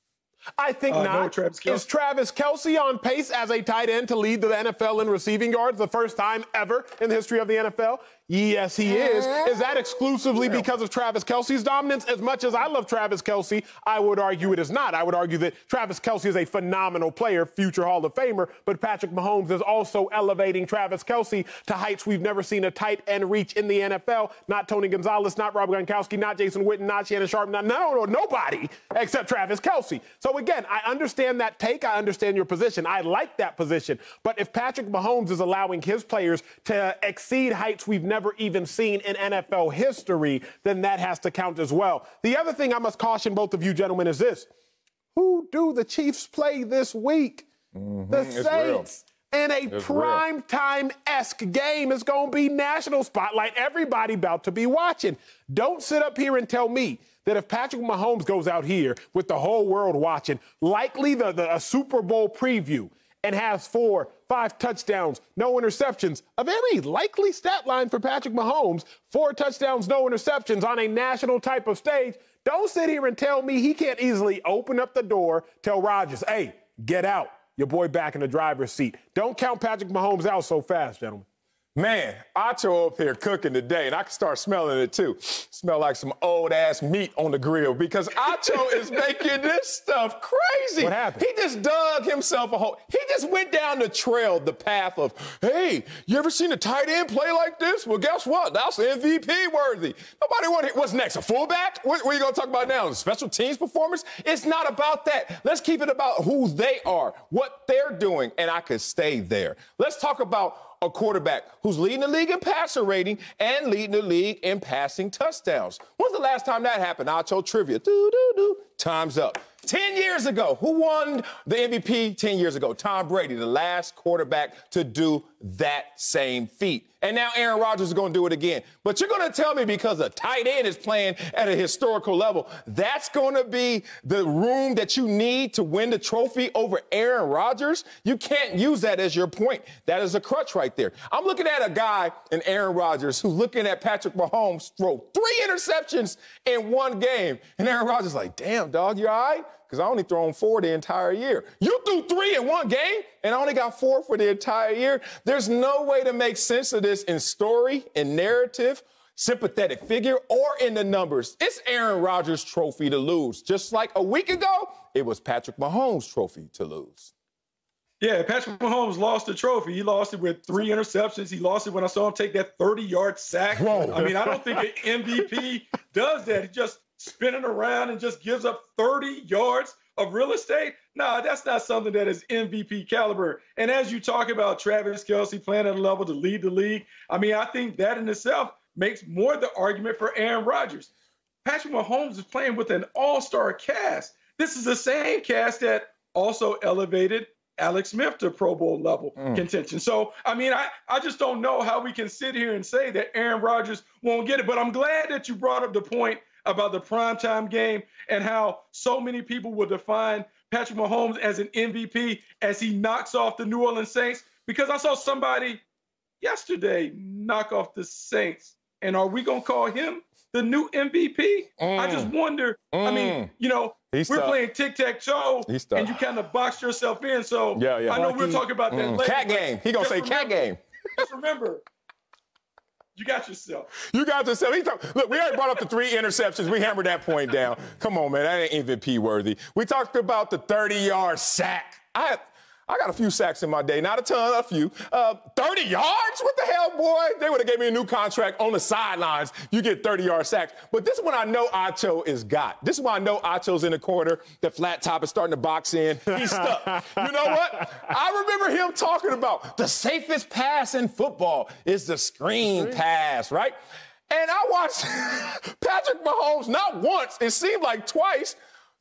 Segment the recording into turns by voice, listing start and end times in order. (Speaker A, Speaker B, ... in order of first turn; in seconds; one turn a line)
Speaker A: 0.6-44.5
Speaker B: 0.9-1.9
Speaker A: 45.1-47.5
Speaker C: 47.7-48.9
Speaker A: 48.1-81.3
Speaker C: 49.7-50.2
Speaker C: 81.8-167.1
Speaker A: 90.8-91.3
Speaker B: 168.0-190.9
Speaker C: 173.6-174.4
Speaker B: 191.4-215.6
Speaker C: 199.2-199.4
Speaker B: 216.2-231.6
Speaker C: 221.6-222.1
Speaker C: 222.7-223.3
Speaker C: 223.9-224.4
Speaker C: 225.5-226.0
Speaker C: 227.5-230.6
Speaker B: 233.0-233.7
Speaker C: 233.7-263.6
Speaker C: 264.1-268.4